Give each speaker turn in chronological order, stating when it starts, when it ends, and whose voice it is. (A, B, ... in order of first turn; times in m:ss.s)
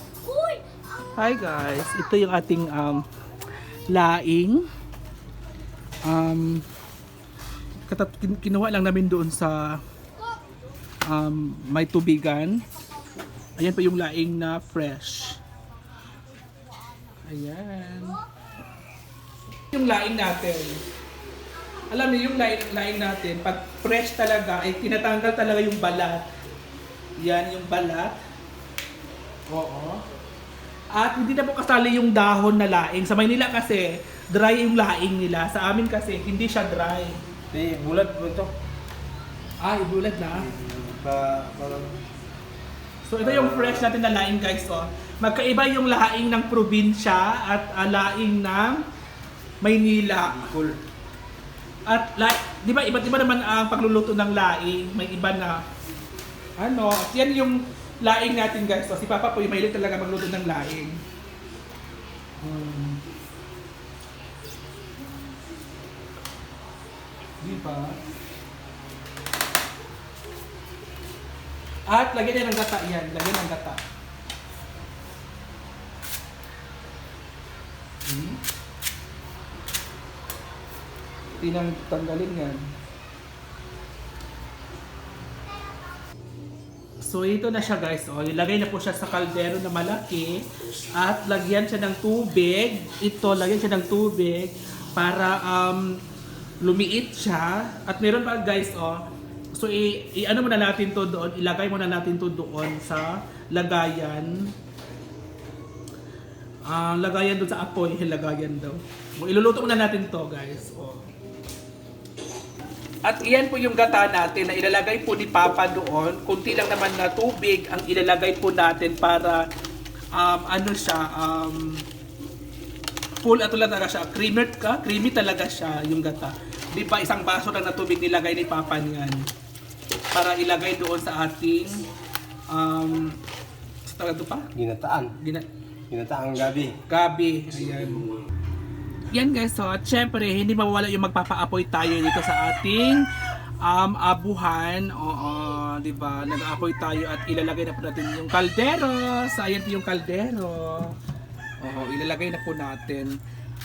0:01.2-0:03.0 A
0:03.9-0:04.6 A
0:06.0-0:06.6 A
0:07.9-0:09.8 A
0:11.0-0:12.6 A
0:13.6-0:15.4 A
0:17.2-0:18.2 A
0:19.7-0:20.8 A
0:21.9-0:26.2 A
0:27.2-0:28.1 A
0:29.5-0:30.0 A
0:30.9-0:37.2 A
0:37.5-0:38.5 B
0:39.6-0:40.5 A
0:40.4-0:41.9 B
0:43.0-0:48.8 A
0:43.2-0:43.9 B
0:49.6-0:50.4 A
0:50.4-0:50.8 B
0:51.9-0:55.6 A
0:56.6-1:01.0 A
1:02.4-1:03.0 A
1:07.4-1:08.0 A
1:11.9-1:13.8 A
1:18.0-1:18.4 A
1:21.4-1:22.6 A
1:27.0-1:30.4 A
1:31.0-1:36.0 A
1:36.6-1:44.5 A
1:46.6-1:51.1 A
1:53.0-1:59.5 A
2:00.1-2:01.8 A
2:03.2-2:09.3 A
2:10.1-2:11.8 A
2:12.5-2:13.2 A
2:13.8-2:14.5 A
2:14.6-2:15.1 B
2:15.2-2:15.5 A
2:15.9-2:16.7 B
2:16.9-2:18.0 A
2:19.1-2:23.0 A
2:23.6-2:30.9 A
2:31.6-2:33.1 A